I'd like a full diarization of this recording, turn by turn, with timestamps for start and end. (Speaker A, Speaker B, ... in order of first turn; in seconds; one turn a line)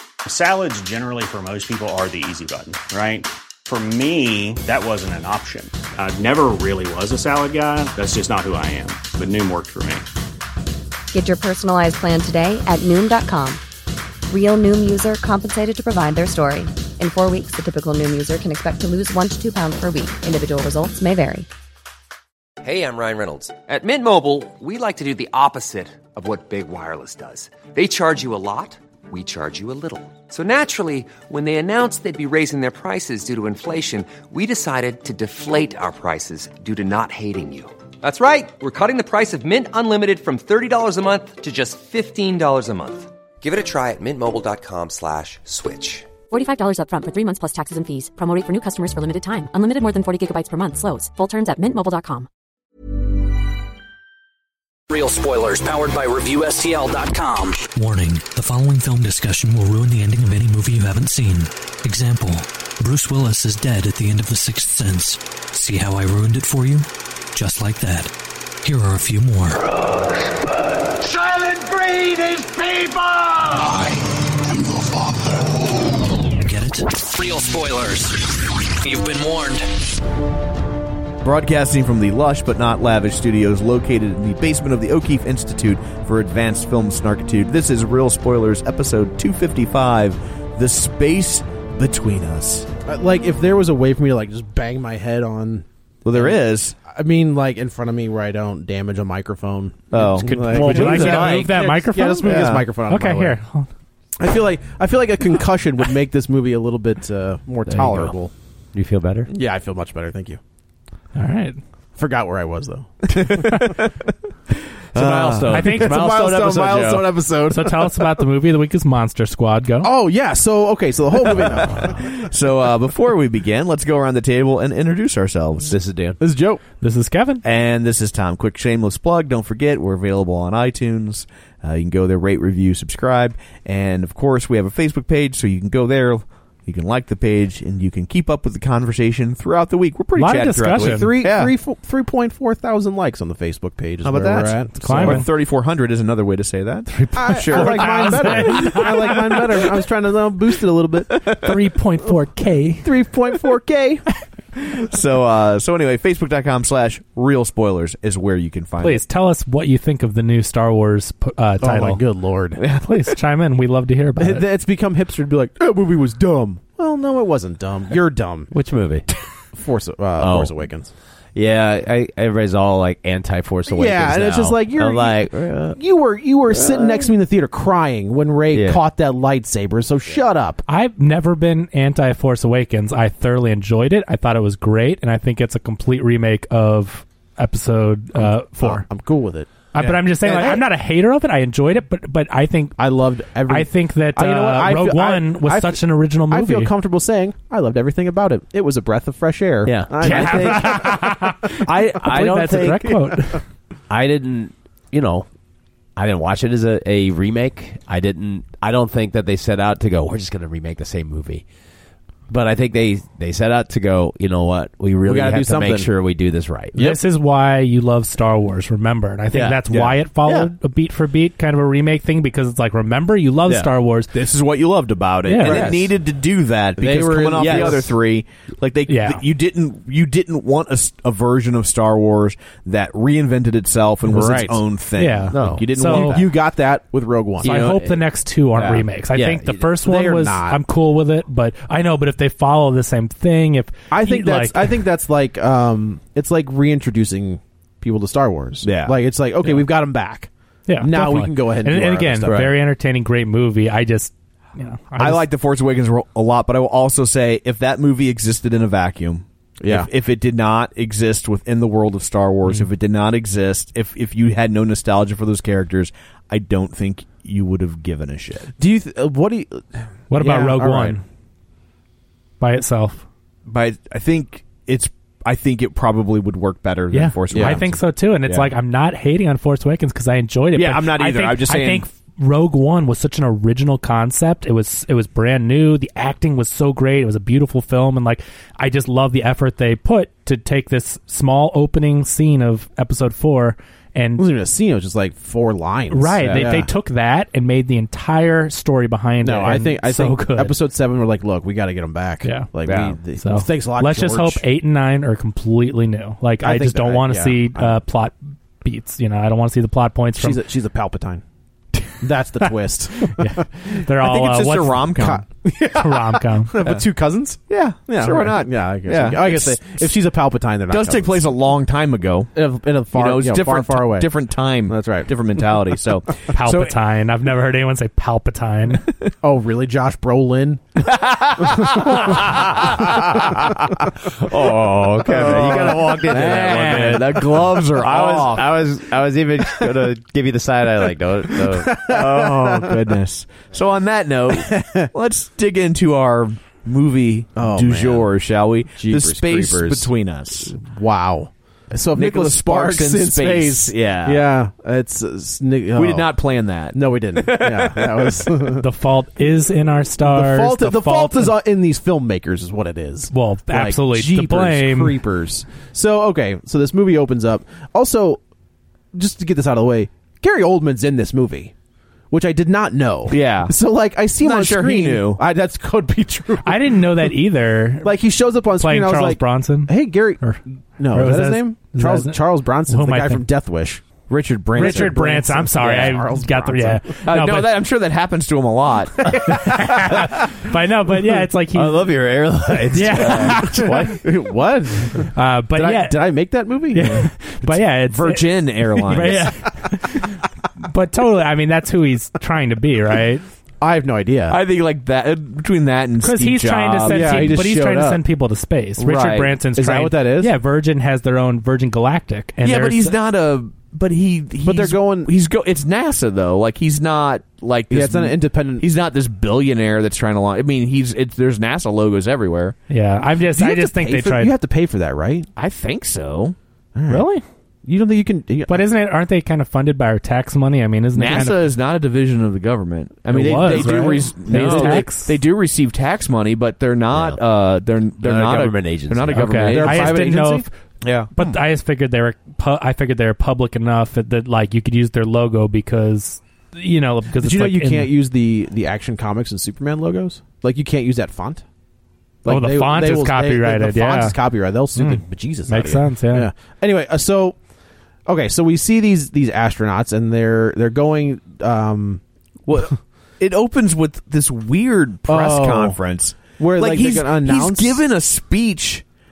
Speaker A: 0.2-10.1
Speaker B: 11.1-13.6
Speaker B: 14.3-21.5
Speaker C: 22.6-46.1
Speaker D: 46.3-52.3
Speaker E: 54.9-57.6
Speaker F: 57.7-68.1
Speaker F: 68.6-69.6
Speaker G: 71.0-75.7
Speaker F: 76.3-76.9
Speaker E: 77.0-79.7
Speaker H: 81.2-92.7
Speaker I: 92.8-103.4
Speaker H: 96.0-96.8
Speaker H: 99.9-101.4
Speaker J: 99.9-102.7
Speaker K: 100.3-103.7
Speaker I: 104.2-108.3
Speaker J: 107.7-108.1
Speaker J: 108.7-109.3
Speaker I: 109.3-110.4
Speaker K: 111.2-111.6
Speaker I: 112.0-113.6
Speaker H: 113.1-113.9
Speaker H: 114.9-115.8
Speaker J: 114.9-117.2
Speaker K: 115.5-116.1
Speaker I: 115.5-118.2
Speaker K: 117.5-119.9
Speaker I: 119.8-122.0
Speaker H: 121.8-125.8
Speaker J: 125.6-126.2
Speaker I: 126.2-126.6
Speaker K: 126.8-127.4
Speaker H: 127.4-141.5
Speaker K: 140.2-141.2
Speaker I: 140.7-145.2
Speaker H: 144.0-149.3
Speaker K: 144.8-145.3
Speaker K: 146.9-149.5
Speaker I: 147.1-151.2
Speaker K: 151.3-152.9
Speaker I: 152.8-154.0
Speaker H: 154.5-159.0
Speaker K: 158.8-162.0
Speaker I: 161.6-162.6
Speaker H: 162.6-163.2
Speaker K: 162.7-164.4
Speaker I: 164.2-168.5
Speaker J: 168.5-169.1
Speaker I: 169.5-170.9
Speaker J: 170.2-170.5
Speaker J: 171.3-175.8
Speaker I: 173.7-180.6
Speaker J: 176.5-177.1
Speaker J: 178.5-178.8
Speaker K: 180.7-188.8
Speaker I: 188.2-189.5
Speaker K: 189.7-192.8
Speaker I: 190.2-190.6
Speaker I: 192.8-201.1
Speaker K: 193.5-196.7
Speaker J: 199.6-203.1
Speaker K: 200.0-203.4
Speaker J: 203.9-205.3
Speaker J: 205.9-211.4
Speaker J: 212.3-216.8
Speaker I: 215.0-215.9
Speaker K: 216.7-224.1
Speaker J: 219.3-220.5
Speaker J: 223.4-223.7
Speaker H: 224.1-236.2
Speaker K: 225.2-225.7
Speaker J: 225.4-225.9
Speaker I: 225.4-225.8
Speaker I: 226.8-227.9
Speaker J: 227.3-227.9
Speaker K: 228.9-229.2
Speaker I: 234.1-234.6
Speaker K: 235.0-236.2
Speaker J: 235.3-236.2
Speaker I: 235.7-237.7
Speaker J: 237.4-239.7
Speaker K: 237.4-244.7
Speaker I: 239.8-240.6
Speaker I: 243.9-252.5
Speaker H: 248.6-248.9
Speaker K: 250.7-255.2
Speaker H: 255.0-268.5
Speaker I: 259.6-259.9
Speaker I: 268.6-271.0
Speaker K: 270.1-271.0
Speaker K: 272.4-273.0
Speaker H: 273.5-278.4
Speaker K: 276.9-294.2
Speaker I: 277.3-277.6
Speaker H: 280.6-281.8
Speaker I: 294.2-296.7
Speaker K: 295.9-300.5
Speaker J: 296.2-296.6
Speaker I: 299.2-304.4
Speaker K: 302.2-302.5
Speaker J: 302.6-303.0
Speaker K: 303.2-310.4
Speaker I: 306.4-307.8
Speaker I: 310.2-311.2
Speaker I: 312.0-313.4
Speaker K: 313.1-314.9
Speaker H: 314.0-315.2
Speaker I: 315.0-321.3
Speaker K: 315.7-316.6
Speaker H: 317.5-319.8
Speaker H: 320.7-322.3
Speaker I: 322.4-324.1
Speaker H: 322.9-326.7
Speaker I: 324.7-325.1
Speaker K: 326.3-328.9
Speaker I: 329.2-330.8
Speaker H: 330.9-331.8
Speaker I: 331.6-332.3
Speaker J: 332.3-333.4
Speaker J: 334.0-341.9
Speaker I: 335.1-337.1
Speaker H: 335.1-338.6
Speaker I: 341.5-343.0
Speaker H: 341.8-350.5
Speaker I: 344.3-344.9
Speaker I: 347.4-348.1
Speaker I: 348.8-349.9
Speaker I: 350.4-356.1
Speaker H: 351.9-354.3
Speaker H: 355.7-358.3
Speaker I: 356.7-358.6
Speaker K: 358.6-361.3
Speaker I: 360.1-368.2
Speaker K: 363.1-365.0
Speaker I: 368.9-371.5
Speaker I: 372.1-377.1
Speaker H: 373.1-373.5
Speaker H: 374.2-375.2
Speaker K: 376.4-377.9
Speaker I: 377.8-380.2
Speaker K: 378.6-380.4
Speaker I: 380.8-386.8
Speaker K: 380.9-383.2
Speaker H: 384.3-384.9
Speaker K: 384.5-387.6
Speaker H: 387.0-389.2
Speaker K: 389.1-392.1
Speaker J: 391.5-394.0
Speaker K: 392.7-393.8
Speaker I: 393.1-397.0
Speaker K: 395.1-396.0
Speaker K: 396.7-403.2
Speaker H: 397.9-399.3
Speaker I: 403.6-404.4
Speaker H: 404.3-407.4
Speaker K: 406.0-412.9
Speaker I: 406.9-408.0
Speaker J: 408.8-409.2
Speaker H: 408.8-409.2
Speaker I: 409.5-410.3
Speaker H: 412.4-422.6
Speaker I: 414.4-415.1
Speaker I: 417.7-418.6
Speaker K: 422.7-424.3
Speaker I: 423.4-425.3
Speaker H: 425.4-426.4
Speaker I: 426.8-427.1
Speaker K: 426.9-427.2
Speaker I: 427.6-428.6
Speaker K: 428.5-431.5
Speaker H: 430.9-440.1
Speaker K: 433.1-435.1
Speaker J: 433.5-434.9
Speaker J: 436.9-437.2
Speaker J: 438.0-439.5
Speaker K: 439.1-440.5
Speaker I: 439.5-440.4
Speaker H: 440.8-441.1
Speaker K: 441.1-447.9
Speaker I: 447.2-451.4
Speaker I: 452.2-457.4
Speaker K: 452.2-454.1
Speaker K: 454.8-456.3
Speaker I: 458.1-462.0
Speaker H: 462.5-468.8
Speaker I: 465.1-465.8
Speaker I: 466.4-467.8